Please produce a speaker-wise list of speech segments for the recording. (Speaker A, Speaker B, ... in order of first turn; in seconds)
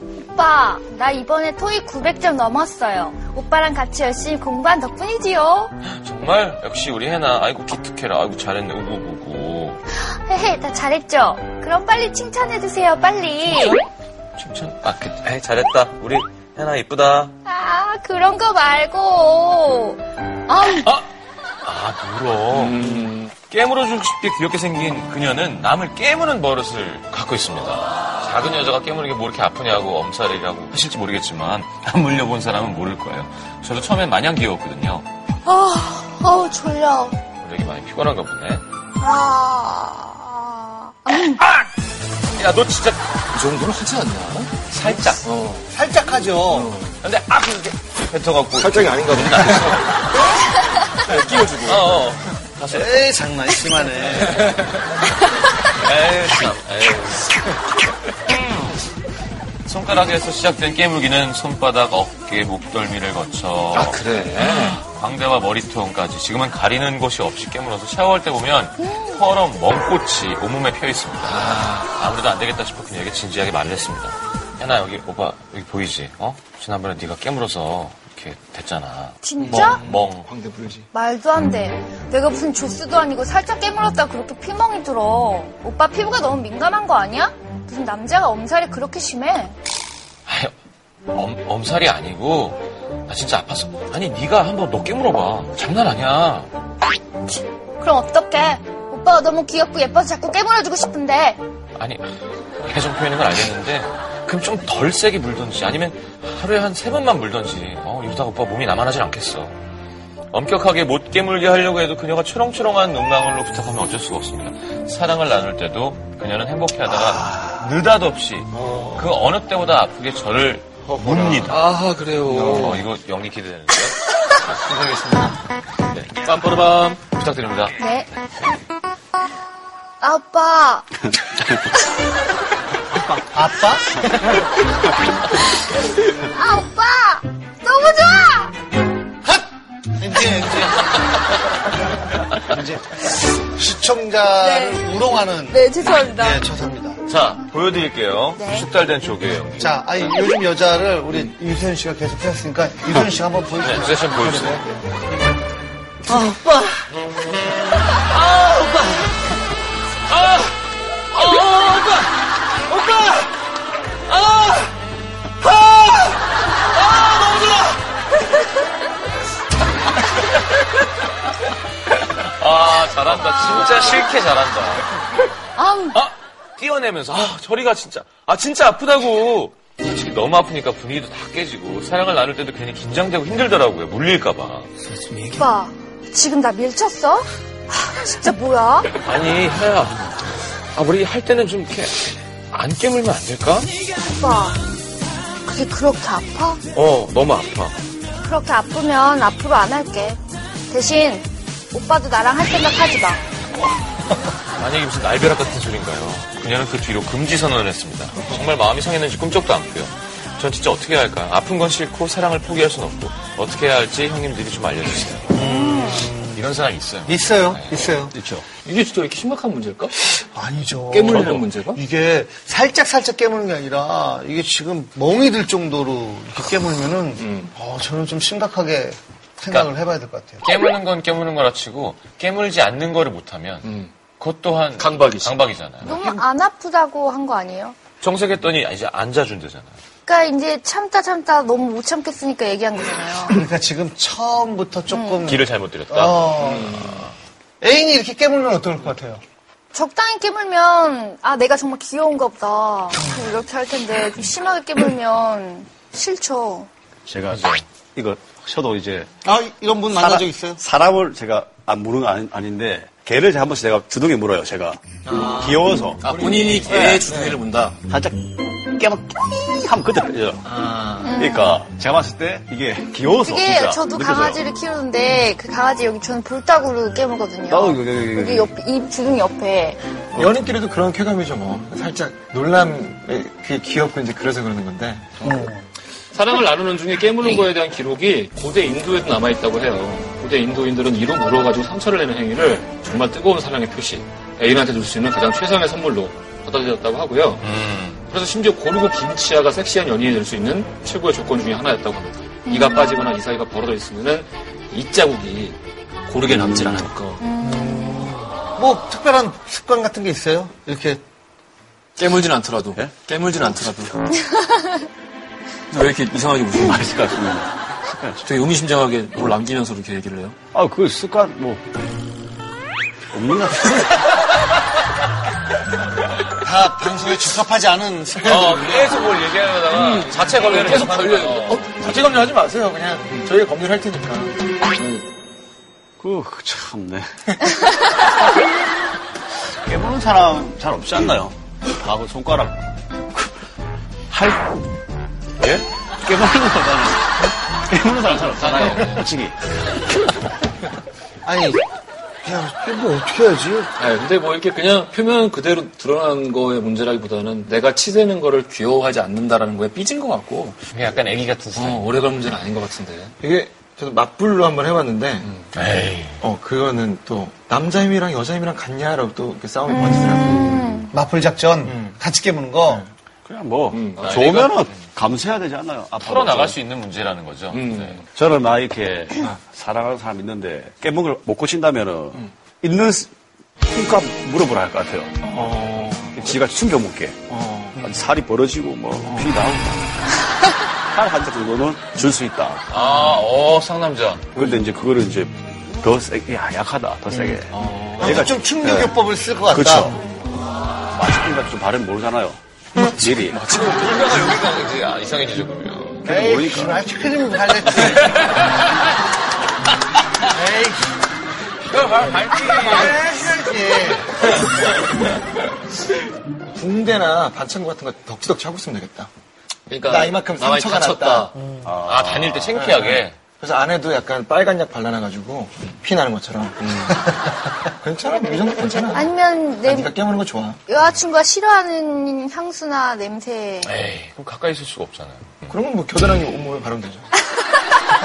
Speaker A: 0.2-5.7, 9.9-13.8, 17.4-20.9, 35.4-37.2, 39.0-41.4, 68.9-69.1, 79.2-79.8, 80.9-89.5, 97.3-101.4, 127.8-128.1, 130.0-130.9, 136.2-138.5, 144.4-144.9, 145.5-146.4, 148.4-148.7, 175.6-176.0, 185.3-188.9, 194.1-194.6, 195.4-196.6, 198.2-200.2, 200.7-203.2, 235.8-237.8, 240.0-243.4, 244.9-245.3, 249.7-256.7, 271.0-271.6, 273.2-280.0, 302.5-303.0, 307.2-308.1, 314.3-314.7, 369.7-370.9, 428.9-429.9, 430.7-433.7
Speaker B: 5.9-9.8, 13.5-13.8, 14.4-17.3, 21.6-35.1, 37.4-38.6, 42.3-43.2, 44.7-45.2, 47.0-50.3, 51.7-53.1, 53.9-54.5, 55.7-57.3, 59.6-80.3, 90.2-90.5, 91.1-96.5, 101.8-109.5, 110.3-121.6, 122.4-124.0, 125.9-127.8, 147.1-150.2, 153.6-154.6, 160.1-160.5, 161.1-162.1, 162.7-163.1, 164.1-164.7, 166.8-167.8, 172.0-175.1, 175.9-184.7, 189.0-193.7, 196.7-197.8, 204.6-218.0, 230.4-236.2, 238.0-239.7, 245.2-247.1, 257.3-257.6, 297.4-298.0, 328.2-331.7, 360.7-361.9, 365.5-366.2, 374.0-374.8, 376.0-378.0, 392.7-394.4, 397.5-398.2, 403.4-406.1, 411.6-413.1, 421.8-423.2, 433.6-435.6
Speaker C: 22.5-23.3, 43.3-45.7, 46.5-47.0, 48.5-49.8, 51.0-52.0, 63.7-64.8, 71.2-71.9, 121.5-122.8, 218.6-219.9, 220.9-221.8, 227.2-227.5, 233.6-233.9, 234.8-235.4, 246.4-247.1, 266.0-267.8, 286.1-297.4, 298.1-307.2, 312.0-314.1, 315.7-317.0, 318.2-320.4, 329.7-331.8, 334.8-335.1, 348.2-349.1, 353.8-360.6, 361.5-363.1, 373.7-374.1, 377.5-378.1, 403.5-404.1, 419.7-421.3
Speaker D: 45.7-46.7, 52.7-54.4, 79.4-80.9, 118.5-119.1, 120.9-121.7, 122.2-122.8, 124.6-125.4, 133.3-134.0, 140.0-140.8, 142.4-142.8, 143.4-147.0, 149.6-154.8, 156.1-156.8, 158.5-159.1, 215.3-216.4, 217.1-218.1, 220.2-230.4, 243.3-246.7, 247.6-249.2, 259.2-260.6, 265.1-267.4, 285.2-285.7, 307.5-311.0, 326.4-329.1, 330.7-334.3, 351.2-351.6, 352.2-353.7, 370.9-372.9, 385.3-386.2, 387.3-387.7, 398.0-399.9, 406.1-408.2, 410.2-410.9, 412.5-414.1
Speaker E: 218.1-218.4, 257.1-259.1, 259.9-266.1, 266.7-267.0, 267.9-270.5, 271.1-274.4, 277.5-278.5, 306.3-306.9, 316.7-318.2, 320.5-321.6, 323.1-324.0, 336.0-337.1, 338.0-338.5, 339.4-343.3, 344.1-344.6, 345.4-349.4, 373.2-376.6, 378.1-383.1, 383.6-385.2, 386.1-389.9, 390.9-392.6, 394.4-398.9, 399.5-400.0, 400.9-403.5, 406.0-406.8, 421.6-422.6
Speaker F: 270.4-271.1, 280.1-285.4, 363.2-365.3, 366.2-370.5, 371.7-372.0, 416.5-419.1, 419.9-421.3, 422.5-427.1, 427.7-430.6, 435.5-437.1